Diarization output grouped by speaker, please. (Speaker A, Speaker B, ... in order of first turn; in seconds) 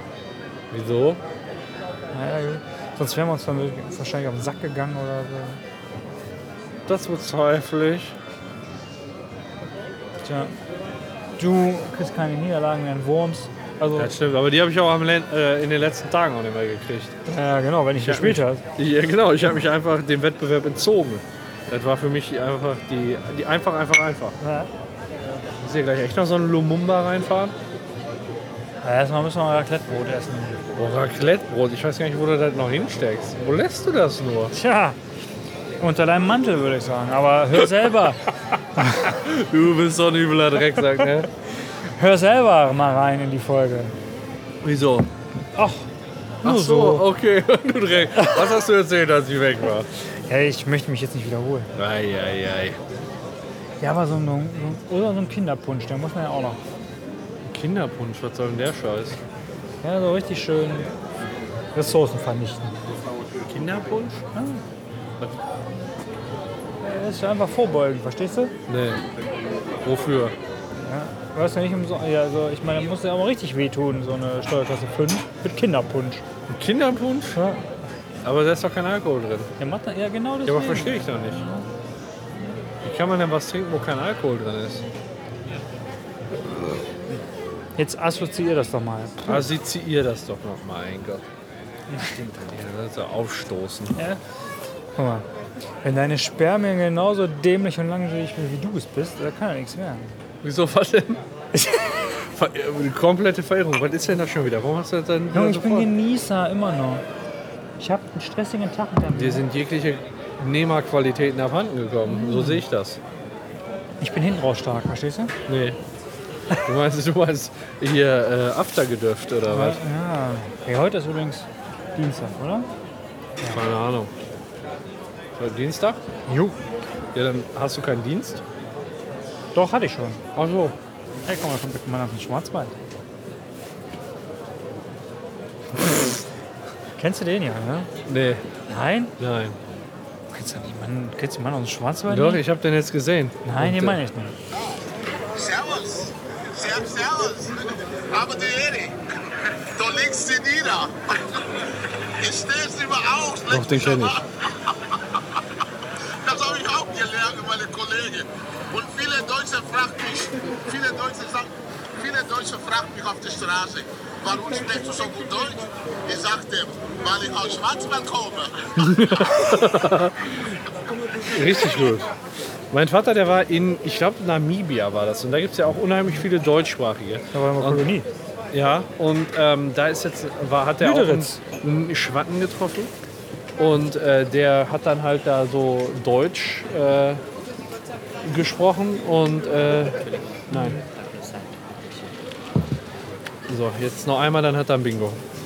Speaker A: 0.7-1.2, 6.9-8.2, 13.9-17.2, 18.0-24.4, 25.6-27.6, 30.7-34.5, 39.0-41.3, 44.6-45.1, 46.4-49.9, 51.8-52.8, 57.5-59.2, 63.5-64.2, 68.7-69.0, 69.8-70.3, 76.5-77.4, 78.2-79.5, 80.5-81.5, 82.8-84.8, 86.4-86.8, 89.3-91.3, 92.2-94.0, 100.4-101.2, 102.2-105.9, 109.1-113.0, 115.5-115.8, 116.6-119.8, 123.5-124.1, 125.4-126.0, 127.1-128.4, 130.3-130.8, 138.1-138.4, 139.2-139.6, 142.1-144.0, 153.5-154.2, 168.8-170.5, 171.3-172.1, 172.7-177.8, 178.5-182.9, 183.6-187.2, 188.2-190.8, 193.5-195.2
Speaker B: 2.1-5.6, 10.2-10.6, 11.4-14.1, 17.3-18.6, 24.4-24.7, 28.8-30.6, 34.5-35.0, 35.8-38.2, 38.8-39.1, 42.0-44.0, 45.5-45.9, 46.4-47.1, 48.1-48.5, 50.3-51.7, 53.8-56.6, 59.8-60.9, 61.7-62.7, 64.3-64.6, 66.8-68.5, 70.8-76.2, 77.3-77.7, 79.6-81.7, 87.8-89.5, 91.9-92.3, 94.0-94.2, 95.0-95.3, 95.8-100.1, 101.5-101.8, 105.3-107.0, 107.8-109.4, 112.1-112.6, 114.0-115.3, 119.5-122.7, 126.3-126.6, 129.5-130.2, 131.2-132.7, 137.0-137.9, 138.7-139.1, 140.3-142.4, 143.4-144.3, 177.3-178.1, 180.8-181.4, 190.5-190.8
Speaker C: 145.3-149.0, 149.8-151.4, 152.2-154.3, 156.2-168.8